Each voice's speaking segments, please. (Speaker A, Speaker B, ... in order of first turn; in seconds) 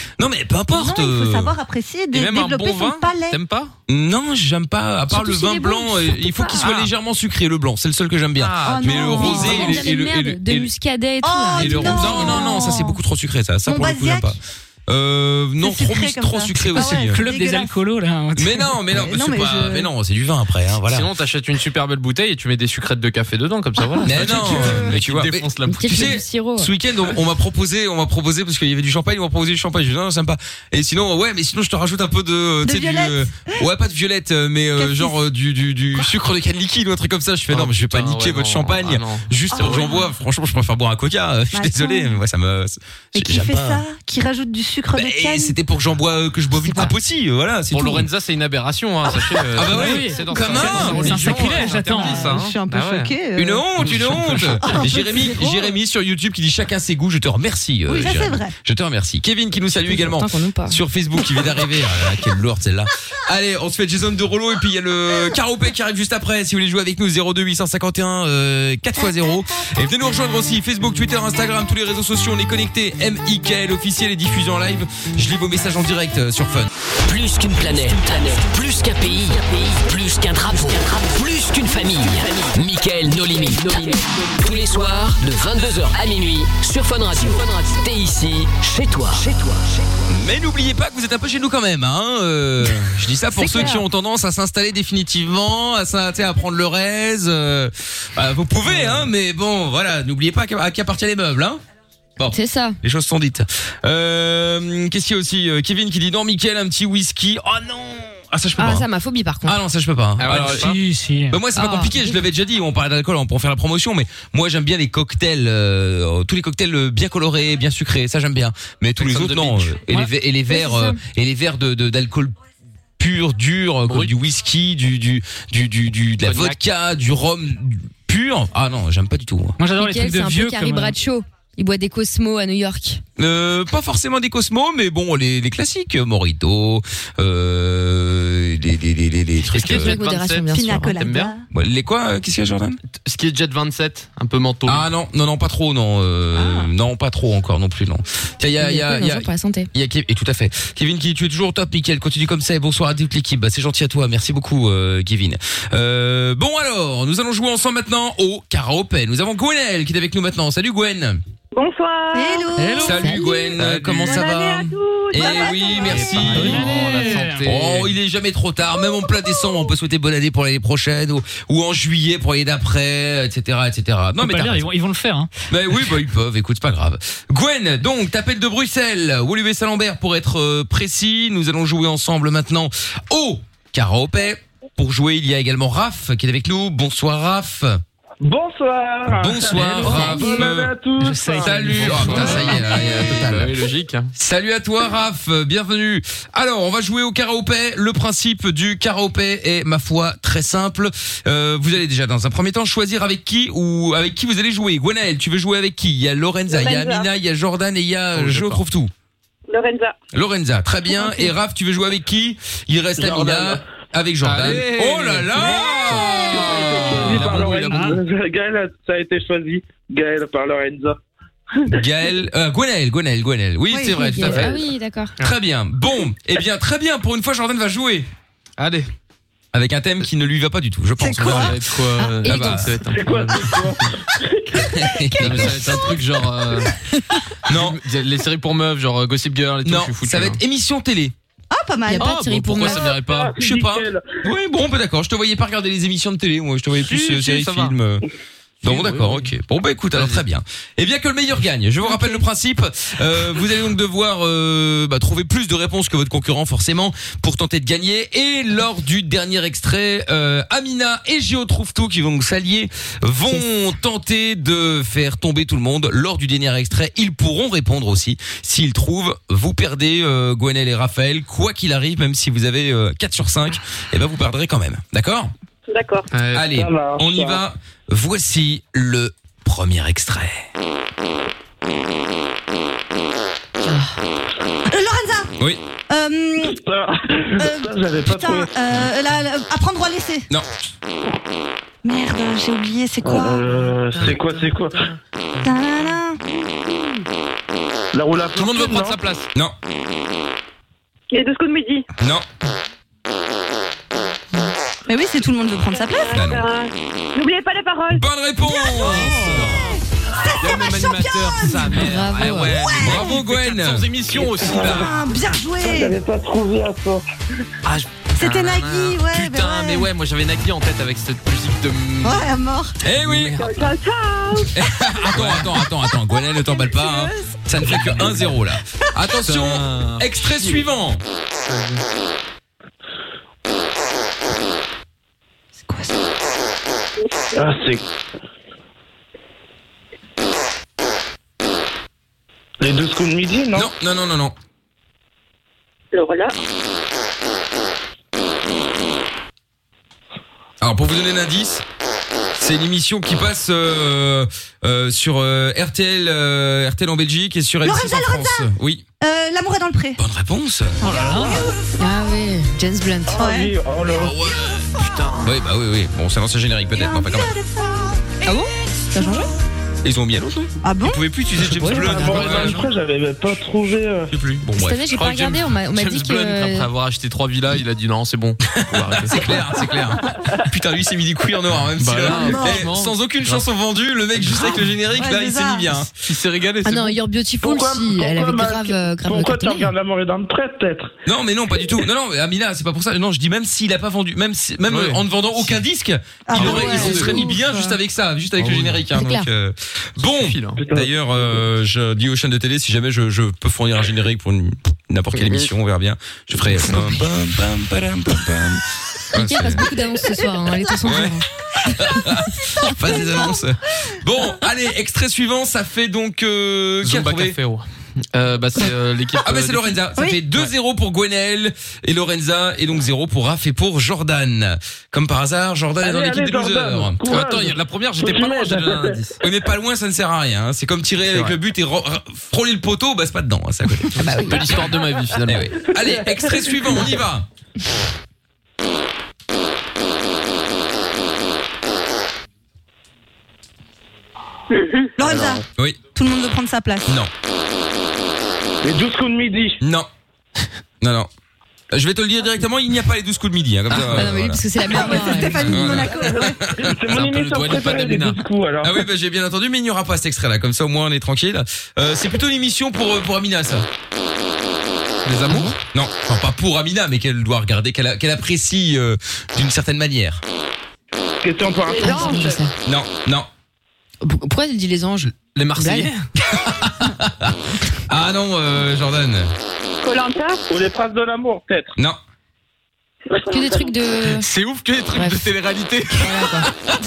Speaker A: 0.2-1.5, 3.9-10.7, 11.6-17.2, 18.4-21.1, 24.0-43.8, 44.9-48.1, 49.1-51.3, 53.3-76.7, 90.1-101.6, 102.2-108.9, 109.4-110.7, 111.3-122.3, 123.0-129.6, 133.2-140.0, 141.5-142.8, 144.7-161.2, 162.8-166.8, 167.4-174.7, 175.5-187.8, 189.1-190.7, 191.4-193.6, 194.1-208.9, 210.1-217.7, 221.7-224.6, 225.2-228.1, 229.5-231.6, 232.2-232.8, 234.7-235.9, 237.5-237.8, 239.6-241.1, 243.1-248.0, 248.6-275.3, 276.3-280.4, 302.0-302.3, 306.0-306.5, 307.9-309.6, 312.8-314.9, 322.8-323.4, 324.5-331.0, 343.5-344.3, 350.6-351.6, 352.4-358.8, 360.0-360.8, 363.9-364.7, 365.2-367.3, 369.8-372.7, 374.1-374.8, 378.6-385.9, 391.1-409.6, 410.8-417.4, 419.2-427.0, 429.2-434.0, 435.2-437.2, 446.9-447.1, 449.6-449.9, 450.8-451.1, 451.7-454.4, 455.5-456.8, 458.6-463.7, 465.6-470.2, 472.6-473.3, 476.2-479.3
Speaker B: 0.7-3.4, 9.1-9.8, 11.2-13.0, 13.7-14.3, 15.6-17.8, 18.9-19.9, 23.8-24.9, 32.6-33.6, 34.8-35.2, 39.6-39.9, 41.5-42.2, 43.1-45.6, 50.4-53.9, 54.6-55.7, 57.9-58.5, 140.5-141.4, 162.1-163.1, 165.2-166.4, 215.4-216.4, 223.7-224.3, 231.0-231.6, 241.5-242.1, 251.9-252.2, 284.7-285.3, 285.9-286.6, 287.4-290.3, 291.8-293.6, 295.4-296.2, 304.9-306.2, 308.4-313.2, 314.3-316.0, 318.1-319.9, 322.0-322.8, 326.1-327.5, 335.6-335.9, 357.6-360.0, 360.9-361.6, 363.2-363.5, 366.7-368.3, 368.9-369.3, 370.6-371.0, 371.6-372.0, 382.1-382.7, 384.9-385.8, 396.3-397.8, 412.6-413.4, 419.9-420.2, 445.0-447.0, 454.6-456.4
Speaker C: 2.1-3.7, 6.6-6.9, 8.4-9.7, 20.8-26.1, 37.5-39.8, 47.7-53.2, 53.8-54.6, 110.2-110.8, 119.0-119.8, 123.9-124.1, 126.2-126.6, 139.5-141.3, 142.9-144.8, 163.6-164.2, 165.8-167.9, 191.6-194.1, 208.1-208.6, 214.2-217.9, 228.6-228.9, 231.2-233.7, 235.2-236.7, 237.5-240.4, 242.0-243.3, 246.8-247.7, 248.6-249.3, 249.9-250.2, 276.1-276.5, 293.6-295.5, 298.3-299.3, 308.8-309.8, 310.4-314.9, 317.6-322.3, 322.9-323.5, 325.1-325.5, 327.6-328.3, 329.1-330.7, 331.4-331.8, 371.7-372.6, 374.9-379.3, 381.8-383.4, 386.0-386.9, 394.7-395.6, 396.3-397.2, 398.4-398.8, 400.0-400.6, 416.8-420.5, 427.0-429.1, 431.1-431.4, 434.0-435.5, 456.9-458.2, 465.0-465.6, 475.3-476.1, 484.0-486.4
Speaker D: 5.1-6.7, 8.7-12.7, 25.6-26.7, 46.7-46.9, 59.8-60.8, 93.3-93.8, 102.3-102.8, 108.6-109.6, 111.5-112.2, 120.5-121.0, 129.8-133.0, 139.6-141.1, 148.6-149.7, 162.9-163.5, 189.8-190.4, 223.8-225.1, 232.2-232.7, 241.9-242.9, 283.6-283.9, 311.8-312.6, 361.8-363.3, 374.6-376.7, 386.6-389.7, 398.9-399.3, 409.1-411.2, 434.0-434.7, 453.8-455.8, 465.3-465.5, 471.8-472.5, 474.0-475.9, 483.2-484.3, 484.9-485.3, 485.9-486.5
Speaker E: 16.7-18.8, 49.6-52.3, 110.3-111.4, 129.6-130.9, 162.6-163.0, 166.3-167.4, 174.2-175.3, 189.9-190.4, 191.0-192.7, 217.7-218.0, 360.8-361.4
Speaker F: 77.0-89.7
Speaker G: 161.5-162.5, 164.0-165.9, 206.5-207.1, 209.5-209.9, 275.7-276.1, 301.1-301.9, 305.7-308.0, 323.4-324.5, 345.9-346.3, 444.5-444.9, 471.7-472.2, 479.8-480.4, 483.3-483.6
Speaker H: 188.2-191.6, 213.0-213.6, 216.3-221.0, 232.9-234.9, 243.0-244.2, 276.5-277.4, 286.4-288.5, 293.0-294.9, 297.9-299.0, 314.4-314.9, 315.6-317.0, 337.3-337.8, 342.6-343.7, 363.1-364.2, 371.7-374.1, 387.4-390.9, 400.6-400.9, 425.8-429.1, 435.8-436.8, 448.6-449.6, 456.5-458.8, 471.2-472.4, 480.5-481.7